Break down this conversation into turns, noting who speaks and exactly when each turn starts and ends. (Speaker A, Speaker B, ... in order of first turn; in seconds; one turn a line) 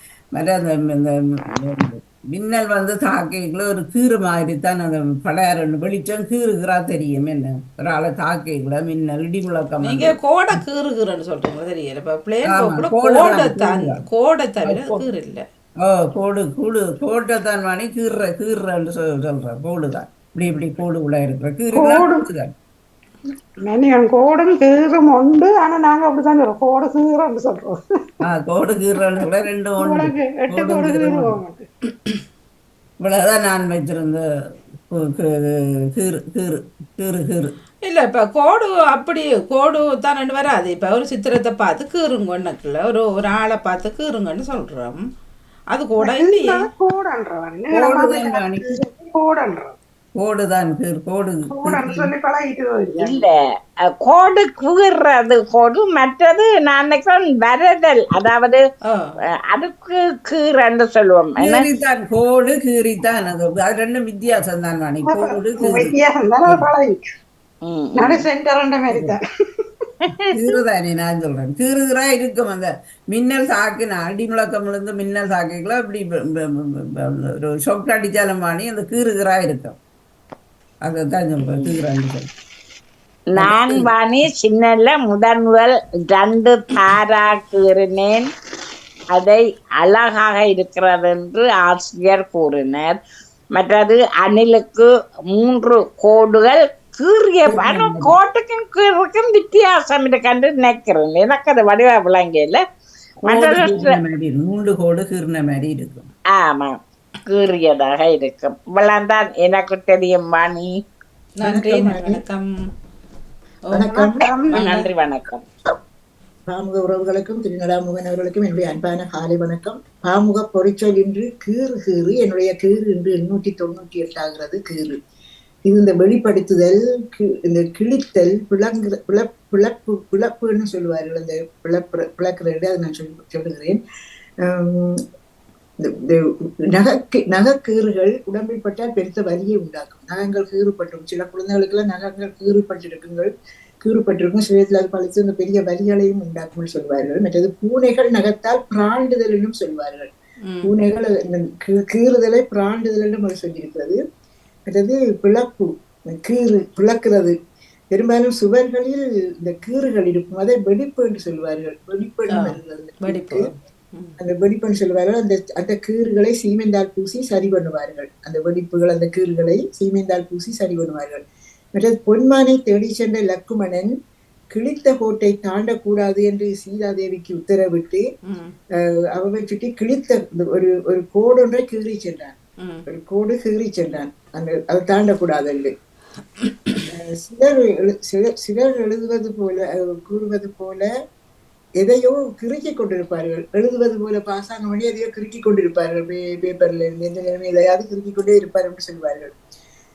Speaker A: 0.3-10.2
Speaker B: 9.8-15.4
Speaker A: 12.5-14.0
Speaker A: 14.6-15.1
Speaker A: 15.8-22.5
Speaker C: 21.7-22.3
Speaker C: 23.6-27.8
Speaker A: 28.2-31.4
Speaker C: 29.8-31.7
Speaker A: 33.0-34.2
Speaker A: 34.9-37.5
Speaker B: 37.9-45.0
Speaker B: 45.7-46.7
Speaker C: 46.0-49.8
Speaker A: 47.7-48.8
Speaker A: 50.2-52.1
Speaker C: 51.5-53.2
Speaker D: 52.9-58.6
Speaker B: 58.9-59.1
Speaker D: 59.5-61.7
Speaker A: 61.4-66.7
Speaker C: 65.0-67.0
Speaker D: 67.7-68.2
Speaker C: 68.0-69.2
Speaker A: 68.9-69.2
Speaker A: 70.3-79.8
Speaker A: 80.8-82.3
Speaker D: 81.5-81.8
Speaker D: 83.3-88.3
Speaker A: 83.4-83.9
Speaker D: 89.1-93.0
Speaker D: 93.5-102.6
Speaker A: 97.5-98.2
Speaker D: 103.2-104.0
Speaker A: 103.3-106.1
Speaker D: 106.3-110.8
Speaker B: 111.4-112.5
Speaker E: 111.4-112.2
Speaker E: 113.7-114.3
Speaker C: 113.9-114.8
Speaker D: 114.5-115.4
Speaker B: 114.5-114.8
Speaker E: 116.5-125.0
Speaker E: 125.7-133.8
Speaker E: 134.4-135.0
Speaker E: 135.8-143.3
Speaker E: 143.8-150.1
Speaker B: 150.4-150.7
Speaker E: 150.6-154.0
Speaker E: 154.7-157.3
Speaker E: 157.9-163.4
Speaker B: 162.3-164.2
Speaker E: 164.2-171.2
Speaker E: 171.8-173.9
Speaker E: 174.5-178.1
Speaker B: 178.3-178.6
Speaker E: 179.1-182.4
Speaker E: 182.9-185.7
Speaker E: 186.8-190.9
Speaker E: 191.8-199.3